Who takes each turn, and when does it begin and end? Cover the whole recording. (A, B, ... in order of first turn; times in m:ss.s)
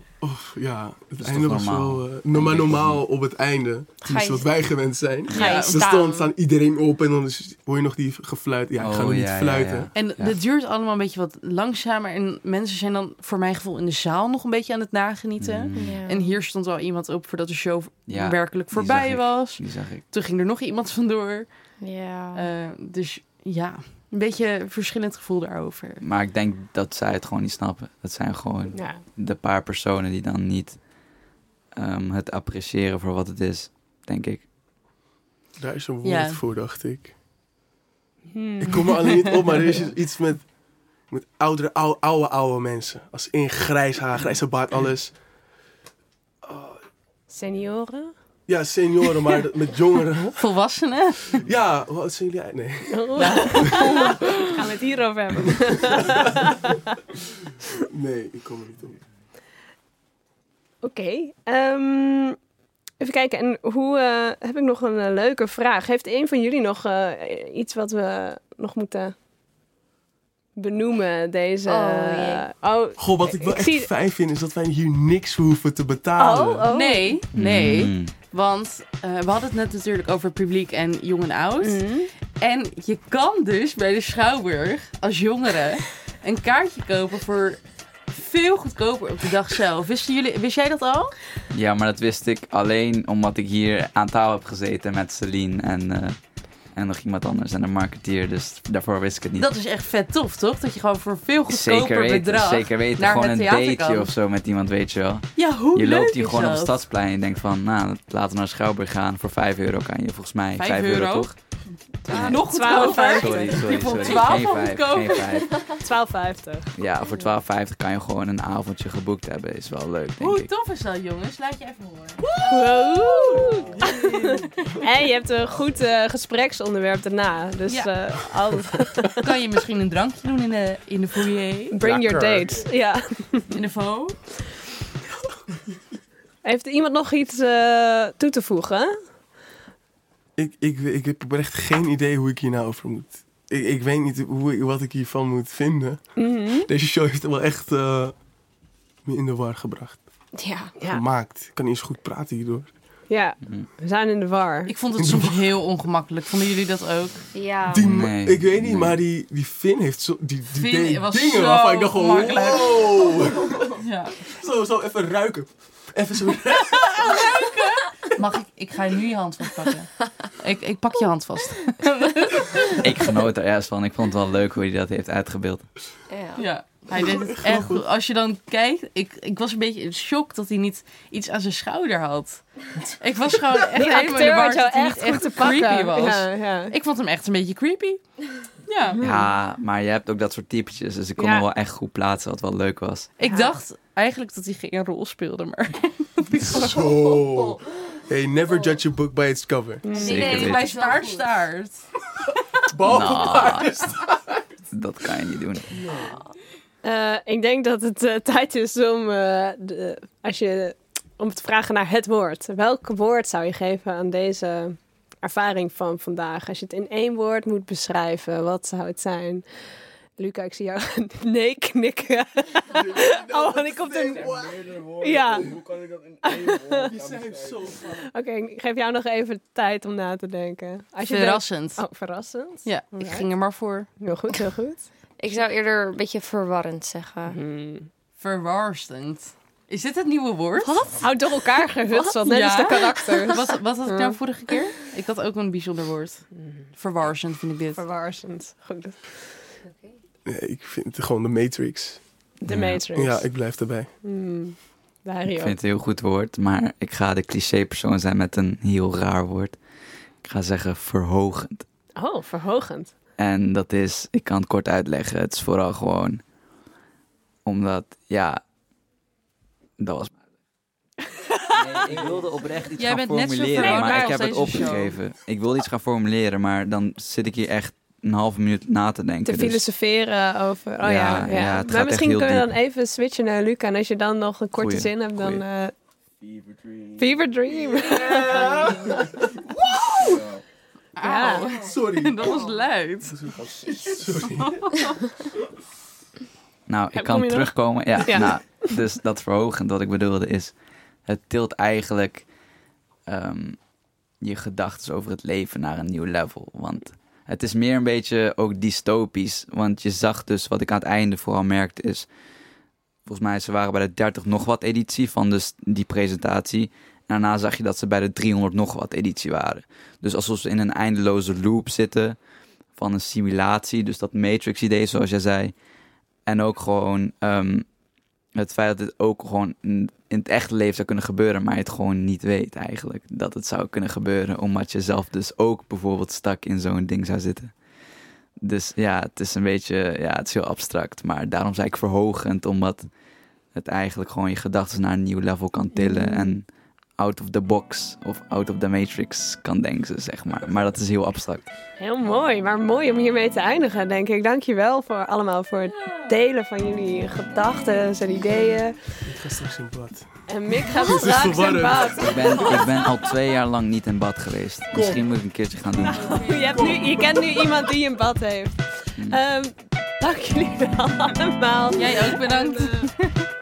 0:00.2-0:09.9 A
0:01.2-0:03.0 B
0:04.0-0:04.5 C
0:05.3-0:05.6 B
0:05.3-0:06.2 D
0:05.4-0:06.1 C
0:08.8-0:10.4 B
0:09.9-0:21.5 D
0:15.4-0:16.0 B
0:15.7-0:16.3 C
0:18.1-0:20.0 B
0:21.8-0:22.5 C
0:22.3-0:26.0 D
0:26.0-0:30.8 B
0:28.7-0:29.0 E
0:31.7-0:34.4 B
0:35.6-0:37.1 A
0:36.0-0:36.4 D
0:38.3-0:39.4 E
0:38.6-0:40.4 A
0:41.1-0:45.2 A
0:46.4-0:46.8 A
0:47.3-0:48.1 E
0:48.5-0:50.4 A
0:50.4-0:51.4 D
0:51.3-0:54.0 A
0:52.9-0:56.9 E
0:53.2-0:54.2 D
0:56.0-0:56.3 A
0:57.9-0:59.0 A
1:00.8-1:02.4 E
1:03.0-1:09.1 E
1:10.6-1:13.9 E
1:11.6-1:12.5 C
1:13.0-1:16.7 A
1:16.2-1:17.2 E
1:16.7-1:31.1 D
1:17.3-1:18.1 B
1:21.6-1:22.1 E
1:31.5-1:36.2 B
1:36.7-1:39.5 B
1:39.4-1:44.1 D
1:41.5-1:51.4 B
1:45.4-1:46.8 D
1:50.6-1:51.5 D
1:52.0-1:55.7 B
1:52.1-1:54.3 E
1:52.1-1:55.7 D
1:55.8-1:56.7 E
1:56.8-2:00.5 B
2:00.2-2:02.3 D
2:02.4-2:09.3 E
2:03.3-2:04.5 F
2:07.7-2:07.9 D
2:09.1-2:11.8 D
2:11.7-2:13.6 E
2:11.9-2:12.7 F
2:13.5-2:14.2 D
2:16.4-2:18.9 E
2:20.4-2:26.0 A
2:26.2-2:26.7 E
2:26.6-2:28.1 A
2:29.0-2:30.0 A
2:30.4-2:30.7 C
2:30.4-2:31.0 E
2:30.9-2:32.7 A
2:33.1-2:34.7 E
2:34.7-2:37.2 D
2:35.0-2:35.5 A
2:37.3-2:37.9 C
2:37.7-2:47.5 A
2:37.8-2:39.0 B
2:40.5-2:44.2 D
2:47.0-2:52.8 D
2:52.8-2:55.6 B
2:56.1-2:56.5 C
2:56.4-3:02.4 D
2:56.9-2:57.8 A
3:03.0-3:09.0 D
3:03.7-3:06.7 E
3:09.0-3:09.3 E
3:09.0-3:13.1 B
3:11.2-3:11.4 E
3:13.2-3:16.8 D
3:13.2-3:13.5 E
3:16.5-3:19.8 A
3:19.8-3:20.5 E
3:19.8-3:21.4 C
3:19.9-3:21.8 D
3:20.0-3:20.8 B
3:22.6-3:24.4 A
3:22.8-3:23.7 B
3:24.7-3:25.8 B
3:25.8-3:26.0 F
3:26.8-3:39.4 E
3:40.2-3:44.4 E
3:42.7-3:44.7 A
3:44.1-3:47.8 F
3:45.0-3:45.5 E
3:45.3-3:45.6 A
3:46.2-3:46.9 E
3:46.8-3:48.1 A
3:47.9-3:53.3 E
3:51.0-3:51.8 D
3:52.6-3:53.9 D
3:54.0-3:54.9 E
3:55.2-3:57.4 C
3:57.2-3:57.9 E
3:58.2-4:00.8 D
4:00.9-4:04.2 E
4:01.9-4:02.1 C
4:02.2-4:06.2 D
4:06.8-4:07.8 D
4:07.8-4:09.0 E
4:09.6-4:09.9 C
4:10.2-4:12.0 A
4:12.4-4:13.4 E
4:12.5-4:12.8 B
4:12.9-4:13.9 A
4:14.0-4:15.6 E
4:15.3-4:19.6 B
4:20.2-4:21.6 B
4:22.0-4:22.9 E
4:23.2-4:26.2 B
4:27.4-4:28.4 B
4:29.8-4:30.2 B
4:31.3-4:31.9 E
4:31.5-4:39.6 B
4:32.8-4:35.0 D
4:33.6-4:34.5 E
4:39.2-4:45.7 E
4:40.8-4:42.5 B
4:44.6-4:45.4 B
4:46.2-4:50.4 F
4:47.0-4:48.7 E
4:48.0-4:50.0 A
4:51.0-4:53.2 D
4:51.0-4:51.6 E
4:51.5-4:52.3 A
4:53.0-4:54.6 A
4:53.3-4:54.5 F
4:54.2-4:54.8 D
4:56.7-5:00.5 B
4:56.9-4:58.5 E
5:01.0-5:02.3 B
5:03.1-5:03.6 B
5:04.2-5:12.1 B
5:13.0-5:22.2 B
5:22.7-5:25.5 B
5:26.2-5:27.7 B
5:28.4-5:37.5 B
5:38.4-5:42.9 B
5:43.5-5:46.4 B
5:45.7-5:46.3 E
5:47.0-5:51.4 B
5:51.8-5:58.8 E
5:59.0-6:02.0 A
6:00.3-6:02.6 E
6:02.0-6:06.2 B
6:04.7-6:05.0 A
6:05.9-6:12.9 E
6:06.5-6:07.7 A
6:11.7-6:13.2 D